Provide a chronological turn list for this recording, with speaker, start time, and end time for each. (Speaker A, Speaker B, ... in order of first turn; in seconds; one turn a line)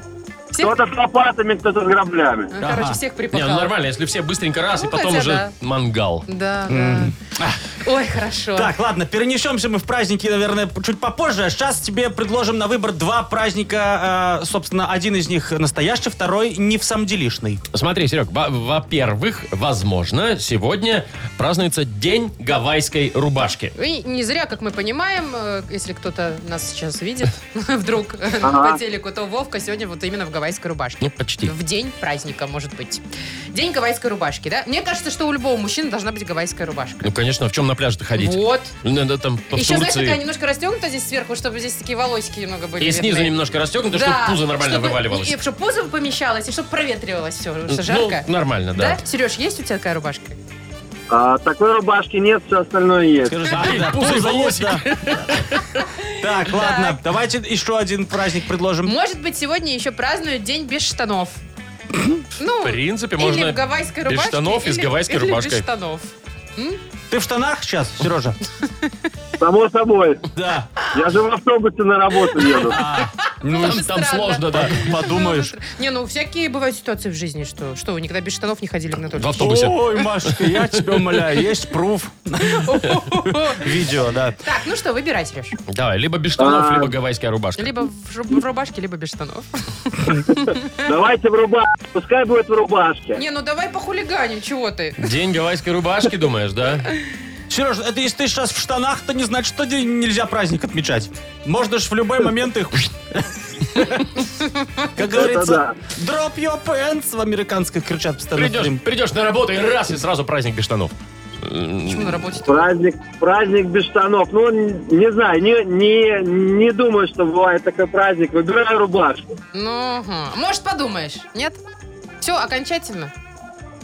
Speaker A: 0.5-0.8
Speaker B: 0.6-2.5
Speaker A: 2.5-3.7
Speaker C: 2.6-3.0
Speaker D: 3.3-6.2
Speaker A: 4.7-5.5
Speaker A: 6.3-7.1
Speaker C: 6.7-7.6
Speaker A: 7.8-8.7
Speaker C: 8.5-17.6
Speaker D: 17.7-23.7
Speaker A: 23.7-37.1
Speaker B: 28.4-28.8
Speaker D: 31.0-31.5
Speaker D: 37.0-40.2
Speaker A: 38.2-38.7
Speaker A: 39.5-43.3
Speaker D: 42.8-45.4
Speaker A: 43.9-50.4
Speaker D: 47.7-49.0
Speaker B: 51.1-53.4
Speaker C: 53.3-54.8
Speaker D: 53.5-55.8
Speaker C: 56.2-58.9
Speaker A: 56.4-57.0
Speaker A: 58.8-61.4
Speaker C: 61.9-62.2
Speaker A: 62.4-66.8
Speaker D: 62.6-65.7
Speaker C: 67.1-68.4
Speaker B: 69.4-70.3
Speaker C: 70.3-70.9
Speaker B: 70.9-72.8
Speaker C: 72.7-73.8
Speaker A: 72.8-79.7
Speaker D: 73.5-75.0
Speaker C: 74.5-75.5
Speaker D: 79.1-81.2
Speaker C: 79.4-84.4
Speaker A: 82.5-83.6
Speaker A: 84.4-85.6
Speaker D: 85.7-87.7
Speaker B: 86.4-86.9
Speaker A: 87.6-90.7
Speaker B: 90.8-93.2
Speaker A: 93.1-95.0
Speaker D: 95.0-96.9
Speaker C: 97.5-104.2
Speaker C: 105.0-108.8
Speaker B: 105.2-105.8
Speaker D: 108.3-112.4
Speaker A: 111.8-112.6
Speaker B: 112.5-119.3
Speaker A: 119.5-121.6
Speaker A: 122.2-123.1